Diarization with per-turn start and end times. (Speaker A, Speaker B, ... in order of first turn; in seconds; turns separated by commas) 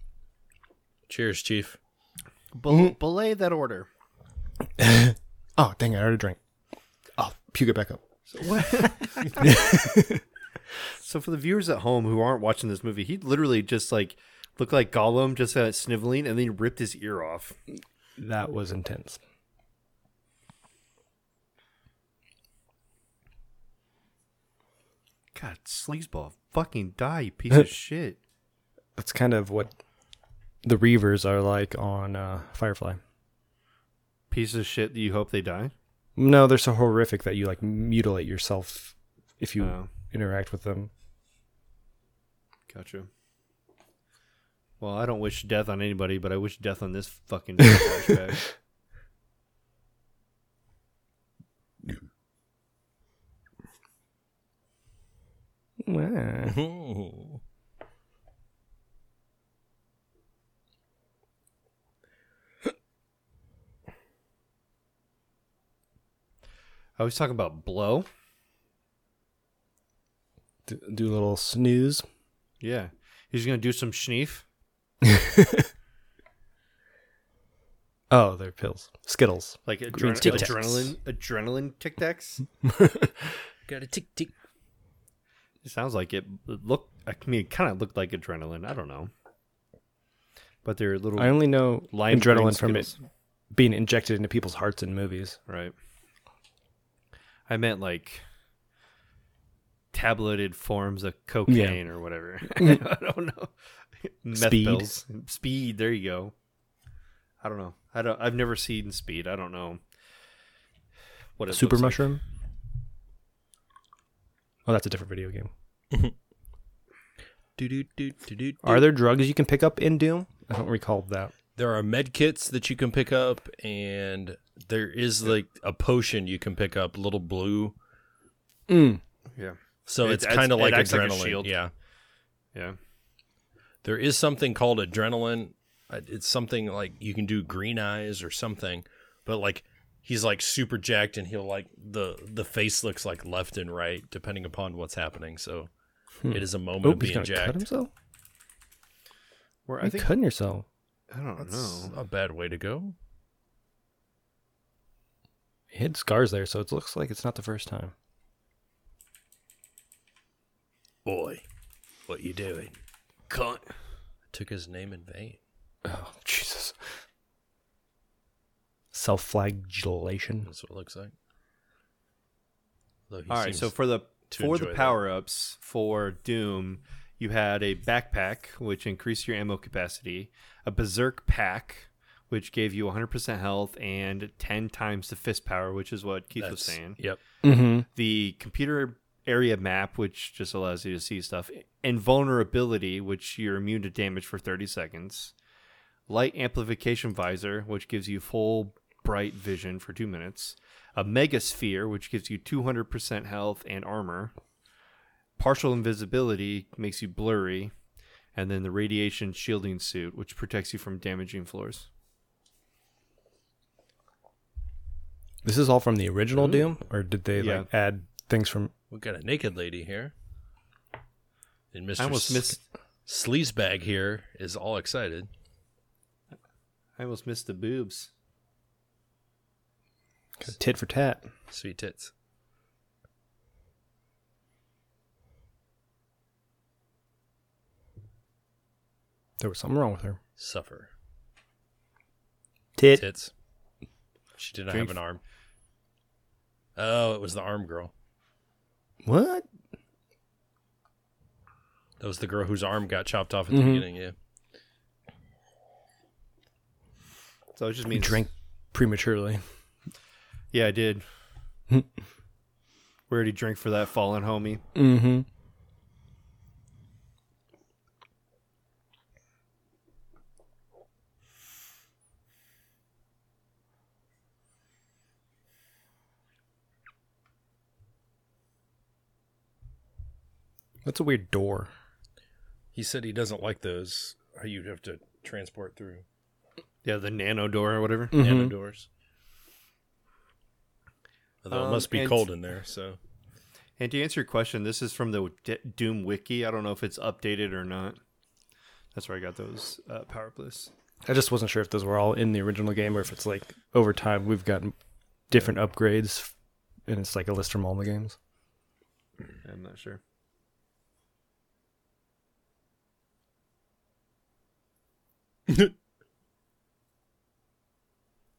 Speaker A: 1.1-1.8, Speaker B: 2.5-3.9, Speaker C: 4.8-6.4, Speaker C: 7.2-8.0, Speaker B: 8.3-9.6, Speaker C: 9.4-10.2, Speaker B: 11.0-17.6, Speaker C: 18.2-19.2, Speaker B: 25.4-28.2, Speaker C: 29.0-29.7, Speaker C: 30.6-33.0, Speaker B: 34.3-35.7, Speaker C: 36.2-40.9, Speaker B: 39.6-39.9, Speaker B: 42.7-43.1, Speaker B: 44.8-48.5, Speaker C: 55.8-56.6, Speaker A: 56.5-57.4, Speaker B: 67.0-68.1, Speaker C: 70.7-72.0, Speaker B: 72.6-74.5, Speaker C: 75.0-75.7, Speaker C: 78.1-80.9, Speaker B: 79.7-82.5, Speaker A: 80.2-80.6, Speaker C: 82.7-83.1, Speaker A: 83.7-84.3, Speaker B: 85.6-89.1, Speaker B: 90.7-93.0, Speaker C: 91.2-92.9, Speaker C: 93.5-95.4, Speaker B: 95.5-95.7, Speaker B: 97.5-98.2, Speaker B: 99.9-106.3, Speaker C: 101.5-101.8, Speaker C: 104.3-105.0, Speaker B: 107.4-109.8, Speaker B: 111.4-112.2, Speaker C: 111.5-112.2, Speaker C: 114.7-115.5, Speaker A: 117.6-118.9, Speaker C: 118.6-121.3, Speaker A: 121.6-127.8, Speaker C: 128.7-129.0, Speaker B: 129.4-131.5, Speaker A: 129.9-131.7, Speaker A: 133.8-145.7, Speaker C: 146.2-147.9, Speaker A: 146.3-147.6, Speaker B: 149.7-150.1, Speaker C: 149.8-150.7, Speaker B: 151.1-151.9, Speaker A: 151.4-152.9, Speaker C: 155.7-157.9, Speaker A: 161.1-161.4, Speaker A: 162.1-162.8, Speaker B: 163.3-163.7, Speaker A: 164.3-165.4, Speaker C: 165.8-166.8, Speaker C: 168.9-170.5, Speaker A: 170.4-171.1, Speaker A: 173.1-173.7, Speaker B: 173.3-187.0, Speaker A: 174.3-175.0, Speaker A: 186.4-187.2, Speaker C: 187.4-187.9, Speaker B: 187.9-195.3, Speaker B: 196.1-204.3, Speaker B: 205.4-207.7, Speaker B: 208.3-211.9, Speaker C: 215.4-218.7, Speaker B: 217.4-217.7, Speaker A: 218.9-220.1, Speaker A: 221.7-225.3, Speaker B: 222.0-222.6, Speaker B: 227.0-228.1, Speaker C: 230.4-231.3, Speaker A: 231.5-232.1, Speaker C: 239.4-240.2, Speaker A: 240.4-240.9, Speaker C: 242.8-243.0, Speaker A: 242.9-243.3, Speaker A: 244.4-245.2, Speaker B: 244.7-245.0, Speaker A: 246.8-247.9, Speaker C: 249.0-249.5, Speaker A: 252.0-254.1, Speaker C: 253.5-253.8, Speaker B: 257.6-258.2, Speaker C: 257.9-259.4, Speaker B: 260.5-261.1, Speaker B: 263.1-264.6, Speaker C: 264.7-265.3, Speaker C: 280.9-281.7, Speaker A: 282.7-286.1, Speaker B: 286.8-288.2, Speaker C: 288.1-288.5, Speaker A: 288.1-288.9, Speaker A: 291.4-293.0, Speaker B: 291.5-292.3, Speaker B: 293.8-298.0, Speaker B: 298.9-300.7, Speaker C: 301.1-304.7, Speaker C: 305.3-306.3, Speaker C: 306.9-308.2, Speaker B: 309.4-310.0